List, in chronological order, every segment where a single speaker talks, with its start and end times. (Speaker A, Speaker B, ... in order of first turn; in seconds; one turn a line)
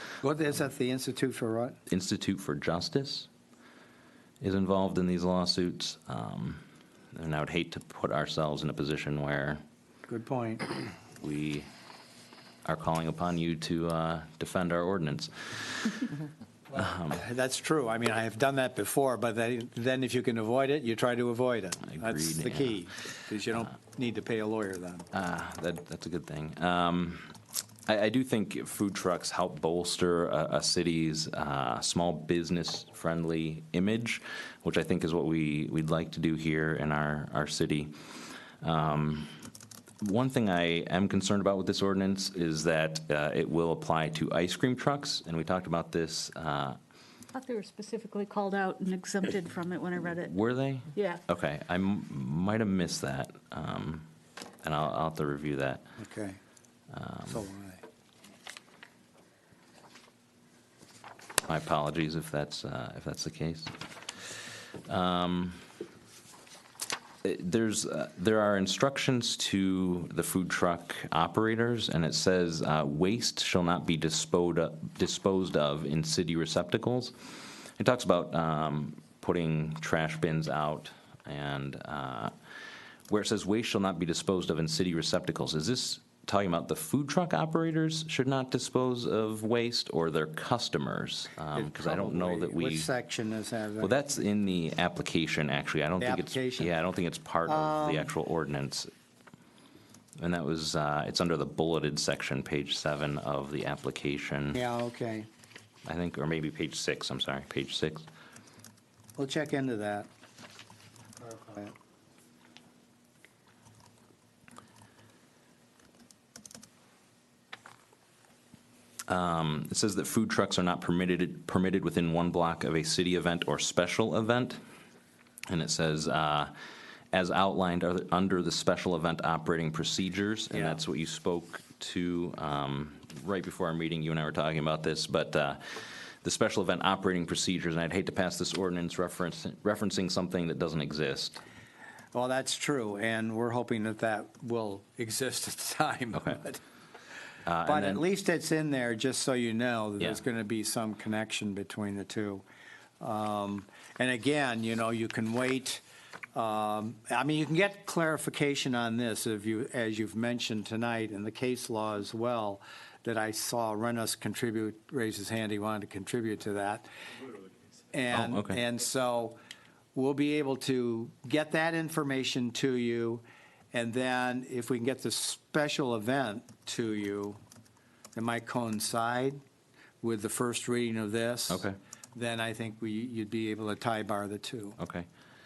Speaker A: 0.2-1.8
Speaker B: 1.9-3.3
Speaker B: 4.4-9.6
Speaker A: 10.1-10.7
Speaker B: 11.2-11.7
Speaker B: 12.7-16.1
Speaker A: 16.7-25.1
Speaker B: 16.7-17.2
Speaker B: 21.8-22.8
Speaker B: 25.1-39.4
Speaker B: 40.0-46.8
Speaker C: 47.3-50.4
Speaker B: 50.2-54.1
Speaker C: 50.9-51.2
Speaker B: 54.6-55.8
Speaker A: 56.0-56.4
Speaker B: 56.9-57.4
Speaker A: 57.3-57.8
Speaker B: 61.5-65.6
Speaker B: 67.2-82.3
Speaker B: 83.1-92.9
Speaker A: 91.5-93.9
Speaker B: 93.8-98.9
Speaker A: 96.0-96.7
Speaker A: 97.5-98.1
Speaker B: 100.2-104.6
Speaker A: 104.5-105.3
Speaker B: 105.8-108.1
Speaker A: 109.2-110.1
Speaker A: 111.2-111.7
Speaker B: 119.1-124.6
Speaker B: 125.5-126.5
Speaker B: 127.1-141.4
Speaker A: 130.5-130.8
Speaker A: 142.1-146.6
Speaker B: 147.5-148.0
Speaker A: 147.7-152.4
Speaker A: 153.0-166.9
Speaker A: 167.9-169.4
Speaker B: 168.1-168.6
Speaker A: 169.9-177.4
Speaker A: 178.1-179.4
Speaker A: 180.0-184.8
Speaker B: 181.5-181.8
Speaker B: 184.8-185.1